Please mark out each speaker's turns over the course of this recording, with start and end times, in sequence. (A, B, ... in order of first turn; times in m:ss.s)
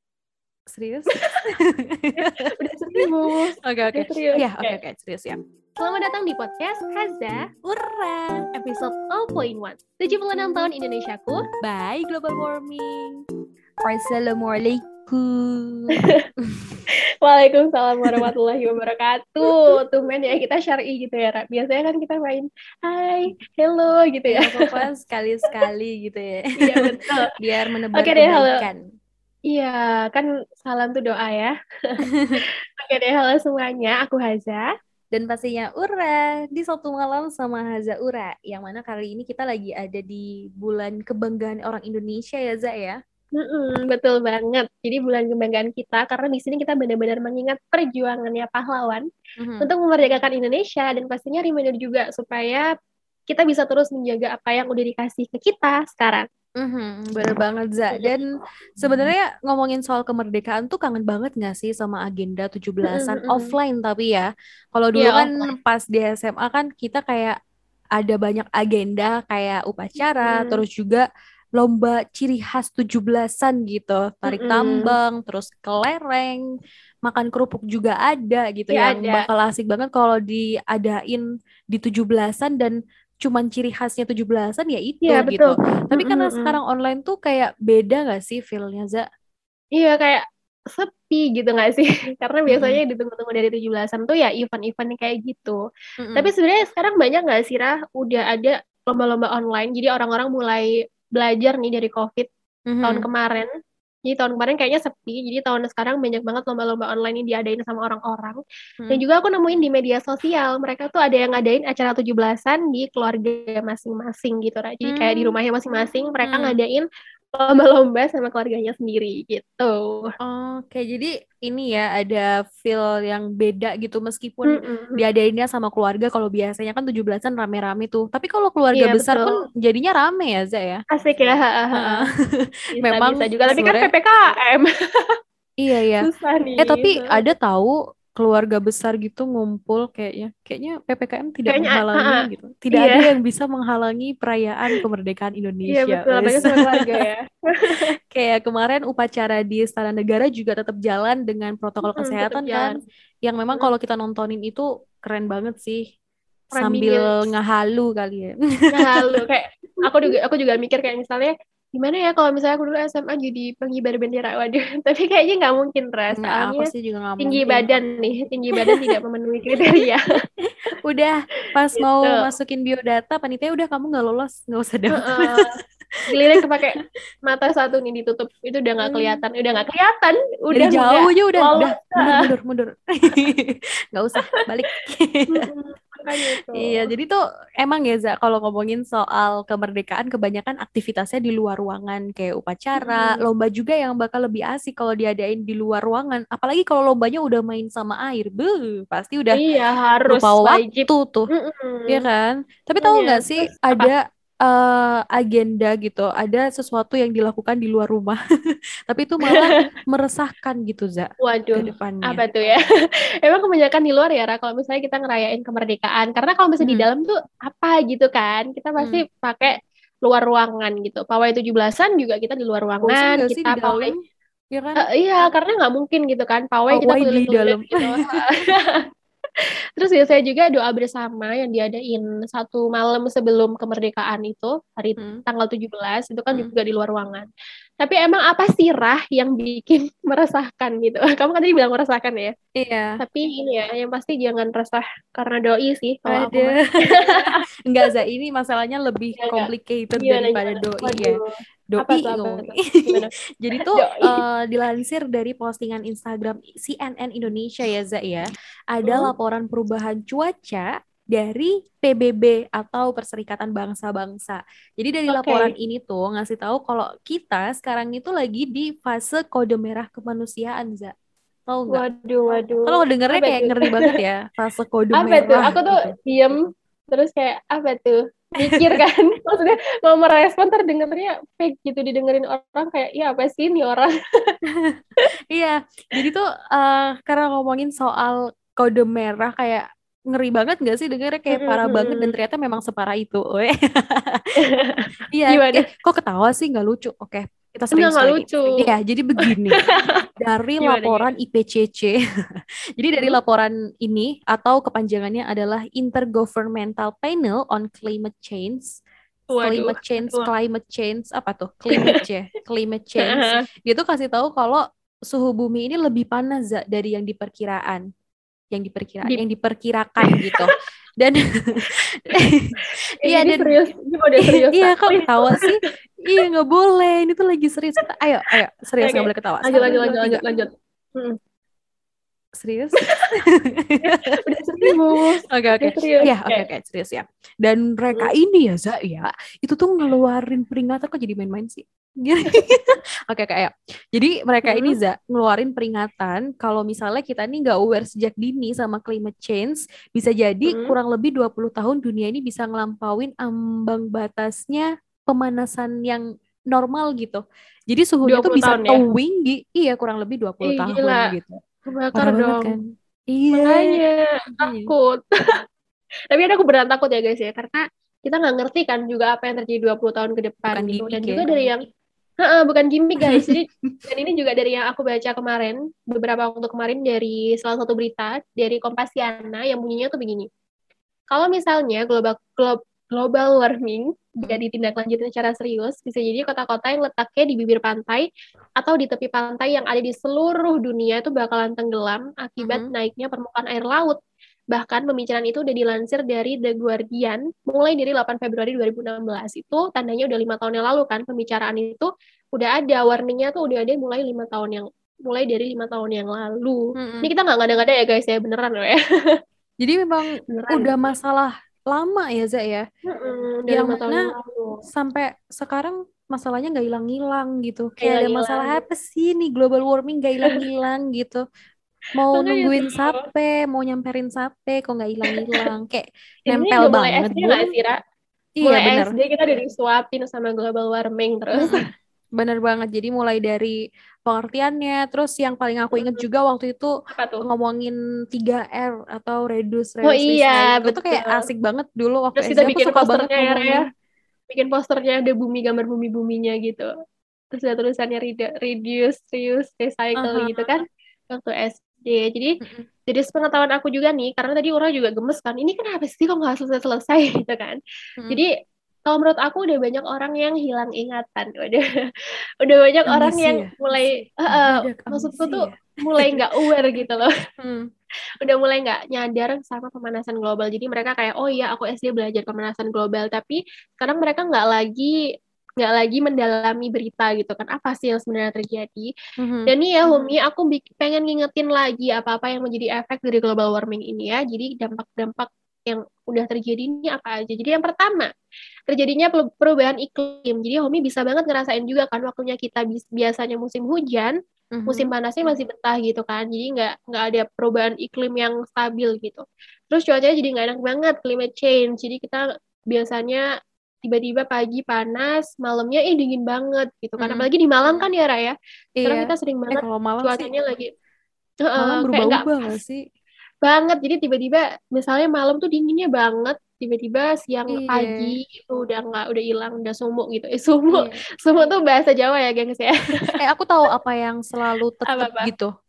0:00.7-0:02.4 A
0:01.1-0:01.4 B
0:02.2-0:04.8 B
0:03.6-0:05.4 A
0:05.8-0:07.4 B
0:07.6-0:08.5 A
0:08.5-0:11.4 B
0:10.3-0:10.6 A
0:11.6-0:13.2 A
0:13.8-0:16.8 A
0:16.0-0:16.2 B
0:17.2-0:24.8 B
0:18.0-0:18.3 A
0:19.5-0:19.7 A
0:24.3-0:28.8 A
0:26.6-0:27.3 B
0:28.0-0:28.6 B
0:29.5-0:31.5 B
0:32.8-0:34.7 B
0:35.1-0:43.0 A
0:43.3-0:49.0 B
0:49.4-0:49.7 A
0:49.6-0:52.6 B
0:53.3-0:56.2 B
0:56.6-0:58.2 A
0:58.8-1:07.3 A
1:02.8-1:03.5 B
1:05.0-1:05.4 B
1:08.0-1:11.0 A
1:10.2-1:10.6 B
1:11.6-1:16.4 A
1:14.3-1:14.9 B
1:17.0-1:29.0 A
1:18.7-1:19.3 B
1:25.0-1:26.6 B
1:29.8-1:35.6 B
1:32.5-1:32.8 A
1:36.0-1:36.3 A
1:36.2-1:42.3 B
1:42.7-1:43.1 A
1:42.8-1:43.5 B
1:44.0-1:48.4 B
1:48.9-1:56.8 B
1:54.8-1:55.3 A
1:56.2-1:56.6 A
1:57.4-2:00.1 B
2:00.2-2:10.8 A
2:04.4-2:05.0 B
2:08.7-2:09.4 B
2:10.9-2:12.1 B
2:11.7-2:12.1 A
2:12.8-2:14.7 B
2:12.8-2:13.9 A
2:15.6-2:26.9 A
2:16.0-2:17.1 B
2:21.5-2:23.1 B
2:25.7-2:27.9 B
2:28.1-2:35.8 A
2:31.9-2:32.8 B
2:36.5-2:37.3 B
2:36.5-2:39.1 A
2:38.7-2:46.7 B
2:46.1-2:47.7 A
2:47.2-2:50.0 B
2:48.5-2:49.0 A
2:50.8-2:55.4 A
2:51.8-2:52.3 B
2:54.9-2:55.6 B
2:56.1-3:02.3 B
2:58.8-2:59.2 A
3:00.5-3:05.5 A
3:05.3-3:06.9 B
3:06.5-3:19.4 A
3:12.8-3:13.2 B
3:19.3-3:22.0 B
3:20.1-3:21.3 A
3:21.9-3:28.2 A
3:22.8-3:23.9 B
3:28.9-3:32.2 A
3:29.3-3:29.6 B
3:31.2-3:32.6 B
3:33.2-3:43.9 B
3:36.6-3:36.8 A
3:42.8-3:44.8 A
3:44.8-3:48.8 B
3:46.7-3:48.4 A
3:49.8-3:57.3 B
3:55.0-3:55.2 A
3:57.8-4:02.3 B
4:02.6-4:03.0 A
4:03.0-4:07.4 B
4:06.1-4:11.2 A
4:09.2-4:14.2 B
4:11.7-4:30.9 A
4:18.8-4:19.1 B
4:25.1-4:25.5 B
4:31.5-4:31.8 A
4:31.7-4:34.0 B
4:32.6-4:35.9 A
4:34.9-4:36.4 B
4:36.9-4:44.3 B
4:38.4-4:38.8 A
4:45.3-4:54.3 A
4:51.3-4:52.1 B
4:54.4-4:55.6 B
4:55.1-4:59.6 A
4:57.7-4:58.7 B
4:59.7-5:00.0 B
5:00.2-5:02.0 A
5:00.6-5:01.1 B
5:02.8-5:08.8 A
5:09.3-5:10.3 B
5:09.4-5:17.8 A
5:13.0-5:13.4 B
5:18.5-5:23.6 A
5:20.0-5:20.4 B
5:23.0-5:25.7 B
5:24.3-5:30.2 A
5:28.8-5:31.2 B
5:32.4-5:34.1 A
5:32.8-5:33.2 B
5:33.8-5:36.5 B
5:35.3-6:01.4 A
5:44.5-5:44.8 B
5:50.5-5:50.8 B
5:58.0-5:58.8 B
6:00.4-6:01.1 B
6:01.6-6:02.6 B
6:01.9-6:03.8 A
6:03.3-6:05.0 B
6:04.4-6:04.7 A
6:06.1-6:11.6 B
6:10.5-6:11.3 A
6:12.2-6:20.3 B
6:13.0-6:13.8 A
6:21.1-6:28.0 B
6:28.6-6:34.0 B
6:32.4-6:32.7 A
6:34.5-6:49.2 B
6:46.8-6:47.1 A
6:49.6-6:52.6 A
6:50.3-6:50.7 B
6:52.8-6:54.6 B
6:53.5-6:54.1 A
6:54.7-7:01.2 A
6:57.8-6:58.6 B
7:01.9-7:07.5 A
7:02.1-7:03.0 B
7:05.1-7:05.5 B
7:06.3-7:07.8 B
7:08.4-7:08.9 A
7:08.4-7:11.6 B
7:11.3-7:11.6 A
7:12.2-7:23.6 A
7:15.7-7:16.0 B
7:16.9-7:17.2 B
7:19.8-7:21.2 B
7:22.2-7:23.6 B
7:24.3-7:26.7 B
7:27.3-7:37.6 B
7:30.0-7:30.6 A
7:32.4-7:32.7 A
7:38.8-7:41.6 B
7:42.4-7:47.1 B
7:42.8-7:46.2 A
7:47.4-7:47.7 A
7:48.2-7:54.9 B
7:55.6-7:58.9 B
7:59.2-7:59.5 A
7:59.5-8:08.1 B
8:08.7-8:14.2 B
8:14.5-8:15.3 A
8:14.7-8:23.2 B
8:23.8-8:30.7 B
8:27.0-8:27.9 A
8:28.8-8:30.3 A
8:31.4-8:32.3 B
8:31.6-8:32.8 A
8:33.4-8:43.2 B
8:37.5-8:38.2 A
8:40.7-8:41.0 A
8:43.1-8:45.5 A
8:44.9-8:45.3 B